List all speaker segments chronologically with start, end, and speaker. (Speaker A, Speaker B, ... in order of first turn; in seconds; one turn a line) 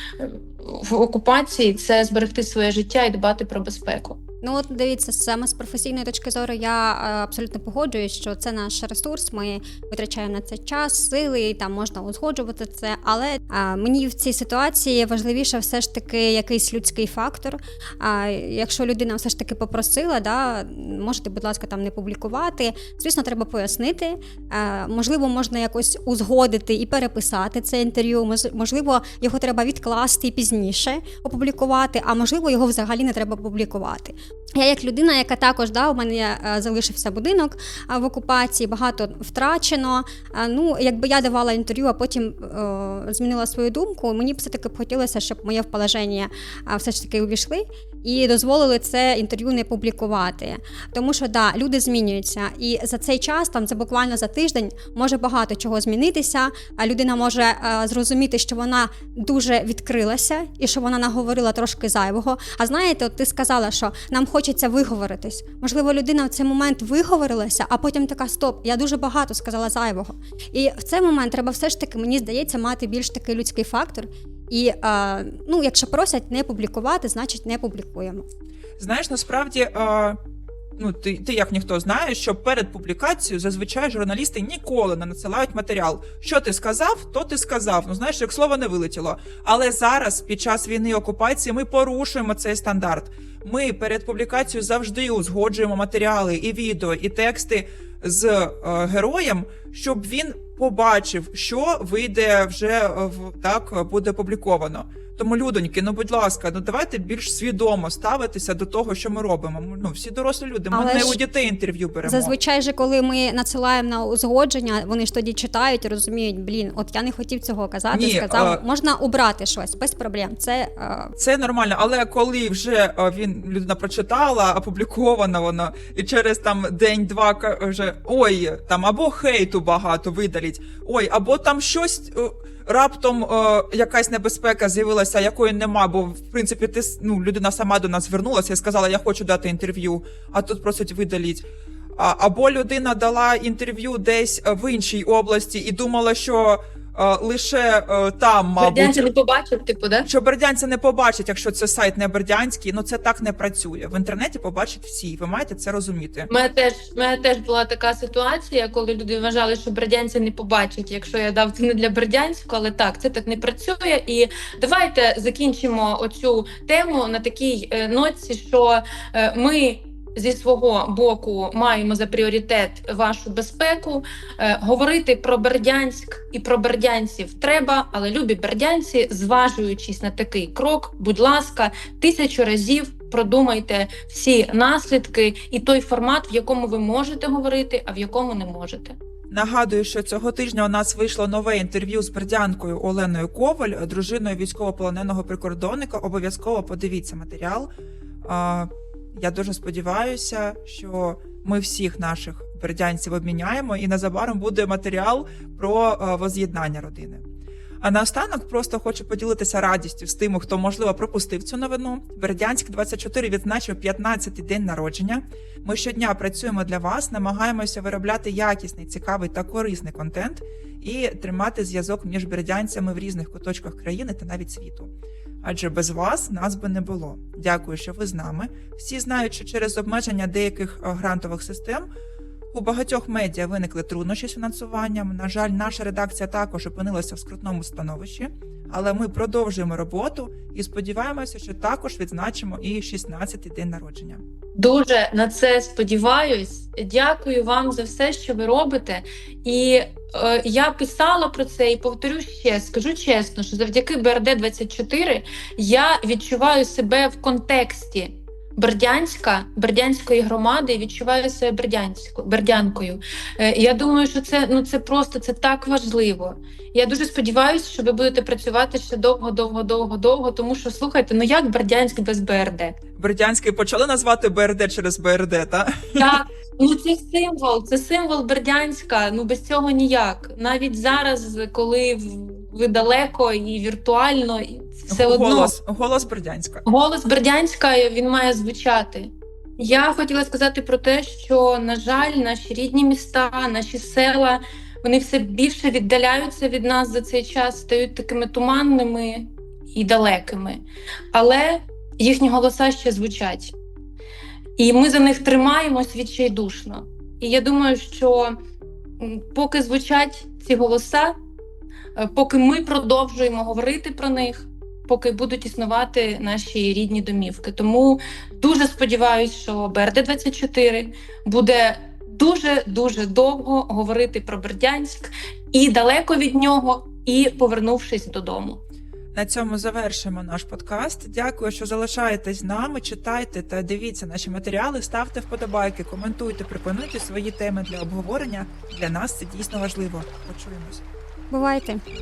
Speaker A: 0.2-4.2
Speaker B: 4.4-78.2
Speaker C: 78.8-80.2
Speaker C: 80.8-112.3
Speaker B: 110.7-111.2
Speaker B: 112.0-121.1
Speaker C: 117.9-118.6
Speaker C: 121.2-149.1
Speaker A: 148.6-150.1
Speaker C: 150.0-156.3
Speaker A: 156.3-189.0
Speaker C: 189.3-197.7
Speaker C: 198.2-207.2
Speaker C: 207.8-224.9
Speaker C: 225.4-231.8
Speaker C: 232.5-244.2
Speaker A: 244.6-272.8
Speaker C: 272.9-276.2
Speaker A: 276.0-285.5
Speaker C: 284.9-286.6
Speaker A: 286.6-300.6
Speaker A: 301.1-303.5
Speaker A: 304.6-308.4
Speaker A: 309.0-311.1
Speaker A: 311.9-328.6
Speaker C: 329.1-340.8
Speaker B: 341.3-341.8